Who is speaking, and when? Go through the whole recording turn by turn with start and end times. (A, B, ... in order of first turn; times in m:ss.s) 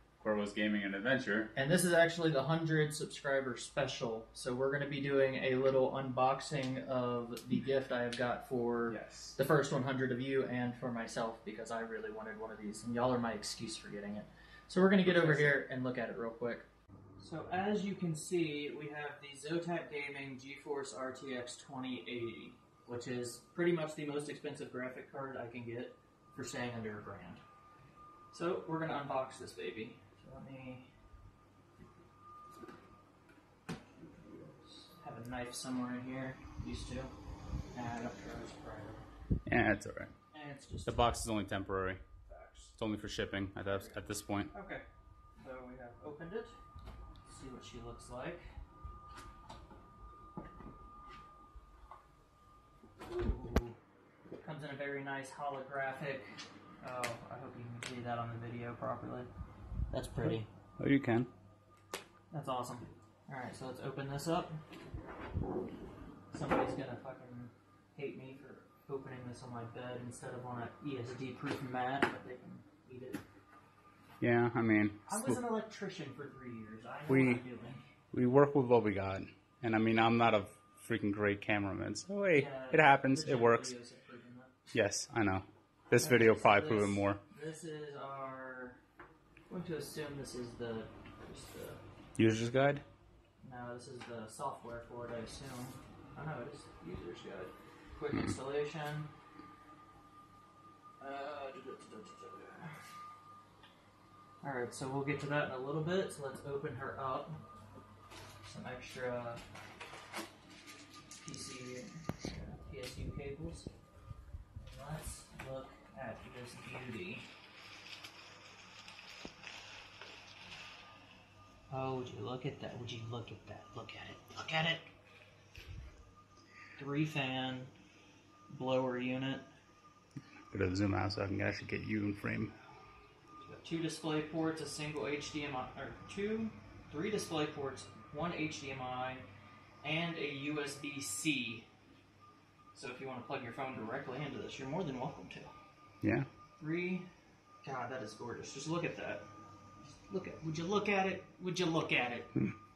0:00.2-0:01.5 A
0:01.5-0:16.7 B
0:08.9-0:09.3 A
0:15.0-0:15.6 A
0:17.2-0:27.4 B
0:28.3-0:30.9 B
0:34.0-0:37.1 B
0:37.7-0:39.0 B
0:39.5-0:40.1 A
0:40.3-0:41.0 B
0:40.8-0:42.0 A
0:42.3-0:42.7 B
0:42.8-0:44.5 A
0:43.7-0:44.8 B
0:45.4-0:46.5 B
0:47.2-0:48.4 B
0:53.0-0:53.8 B
0:54.4-0:56.2 B
0:56.8-0:59.3 B
0:59.9-1:00.5 B
1:00.2-1:01.3 A
1:02.3-1:04.6 B
1:06.3-1:13.2 B
1:14.2-1:15.4 A
1:15.1-1:17.8 B
1:17.1-1:17.4 A
1:18.1-1:23.7 A
1:22.3-1:24.5 B
1:24.7-1:27.2 A
1:26.0-1:28.8 B
1:29.5-1:31.8 B
1:32.2-1:32.8 A
1:33.4-1:39.1 B
1:41.0-1:42.8 B
1:44.4-1:47.4 B
1:48.4-1:49.4 B
1:51.2-1:53.7 B
1:54.6-1:57.2 B
2:01.7-2:04.8 B
2:06.8-2:07.7 B
2:08.5-2:09.5 B
2:10.5-2:12.5 A
2:13.5-2:19.2 B
2:19.8-2:21.6 B
2:22.7-2:25.5 B
2:26.6-2:27.1 B
2:27.6-2:29.2 B
2:30.1-2:32.3 B